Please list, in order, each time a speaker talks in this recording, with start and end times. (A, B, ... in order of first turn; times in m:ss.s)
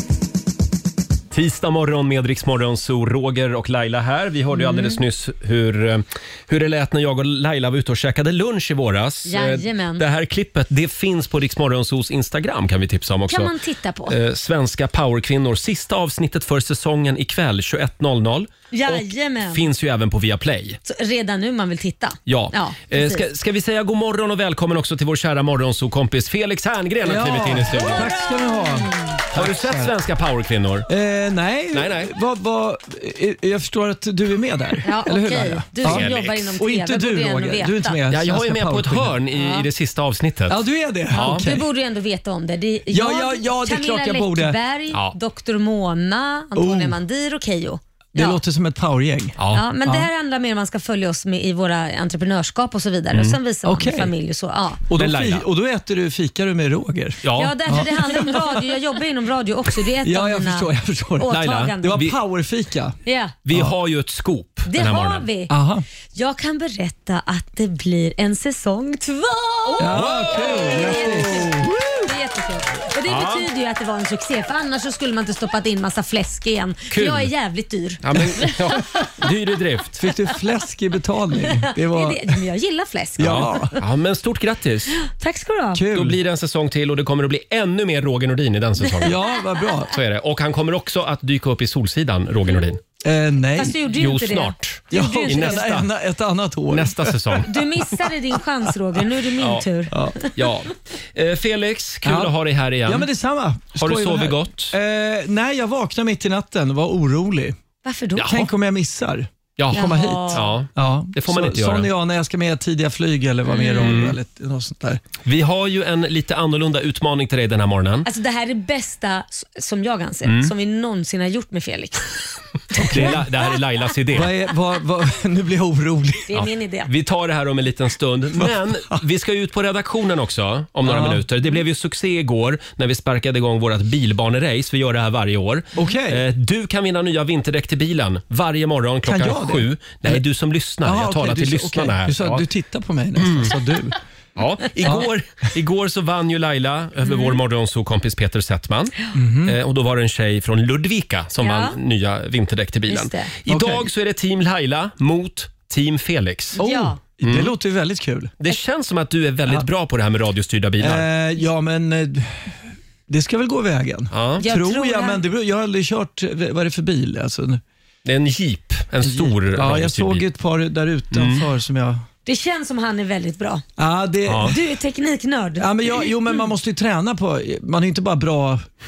0:01.3-0:13.5 A
0:04.6-0:05.0 B
0:09.3-0:10.0 B
0:13.3-0:14.2 B
0:14.1-0:20.8 A
0:18.7-0:19.6 B
0:20.9-0:23.2 B
0:22.3-0:28.2 A
0:27.0-0:29.9 C
0:27.8-0:29.1 B
0:29.3-0:30.9 A
0:30.9-0:39.2 C
0:31.7-0:32.1 A
0:34.8-0:38.0 B
0:35.8-0:36.5 A
0:38.1-0:41.5 A
0:39.3-0:39.7 B
0:40.5-0:41.7 C
0:41.1-0:48.4 B
0:42.9-0:44.6 C
0:46.6-0:47.0 C
0:48.2-0:50.1 C
0:49.4-0:49.7 A
0:49.5-0:54.8 B
0:53.1-0:53.4 A
0:53.6-0:54.1 C
0:54.9-0:58.6 C
0:55.0-0:55.5 A
0:57.2-0:57.9 A
0:57.4-1:02.1 B
1:00.0-1:03.0 C
1:01.3-1:02.2 A
1:03.1-1:03.4 B
1:03.5-1:05.3 A
1:04.7-1:05.5 B
1:05.5-1:05.8 C
1:06.2-1:18.6 B
1:09.8-1:12.1 C
1:09.8-1:11.5 A
1:13.0-1:13.5 A
1:16.9-1:17.3 A
1:18.0-1:20.1 A
1:20.0-1:22.2 C
1:21.6-1:23.7 B
1:23.2-1:23.7 C
1:23.2-1:25.0 A
1:25.0-1:25.8 B
1:25.7-1:26.2 C
1:25.9-1:29.2 A
1:29.0-1:30.0 C
1:29.9-1:32.8 A
1:33.0-1:33.8 C
1:33.6-1:35.7 B
1:33.9-1:35.9 A
1:34.9-1:37.4 C
1:36.7-1:37.5 A
1:37.4-1:40.3 B
1:39.4-1:39.7 A
1:39.9-1:40.2 C
1:40.4-1:43.1 A
1:42.0-1:42.3 C
1:42.8-1:47.6 C
1:43.8-1:44.8 A
1:47.8-1:48.4 B
1:48.2-1:48.5 A
1:48.2-1:55.0 C
1:49.6-1:51.9 A
1:49.7-1:50.4 B
1:53.5-1:54.1 B
1:53.8-1:54.2 A
1:55.2-1:58.1 A
1:58.1-2:03.2 B
2:00.2-2:00.5 A
2:02.8-2:03.2 C
2:02.9-2:04.3 A
2:04.1-2:06.3 C
2:06.3-2:06.9 B
2:06.3-2:22.4 A
2:08.4-2:09.0 C
2:10.8-2:11.2 C
2:15.8-2:16.2 C
2:19.1-2:20.2 C
2:20.8-2:24.0 C
2:23.2-2:23.6 A
2:24.4-2:36.6 A
2:27.0-2:27.4 B
2:29.2-2:29.6 C
2:31.4-2:31.8 B
2:32.9-2:33.3 B
2:33.5-2:33.9 C
2:36.6-2:38.3 C
2:36.6-2:37.0 B
2:37.2-2:37.6 A
2:38.4-2:41.1 A
2:40.8-2:47.6 C
2:44.1-2:44.4 A
2:44.4-2:45.2 B
2:48.0-2:50.3 A
2:49.0-2:52.0 C
2:51.1-2:51.5 A
2:52.3-2:53.6 B
2:53.8-2:54.6 C
2:54.2-2:54.6 A
2:54.4-2:55.7 B
2:55.6-2:58.7 C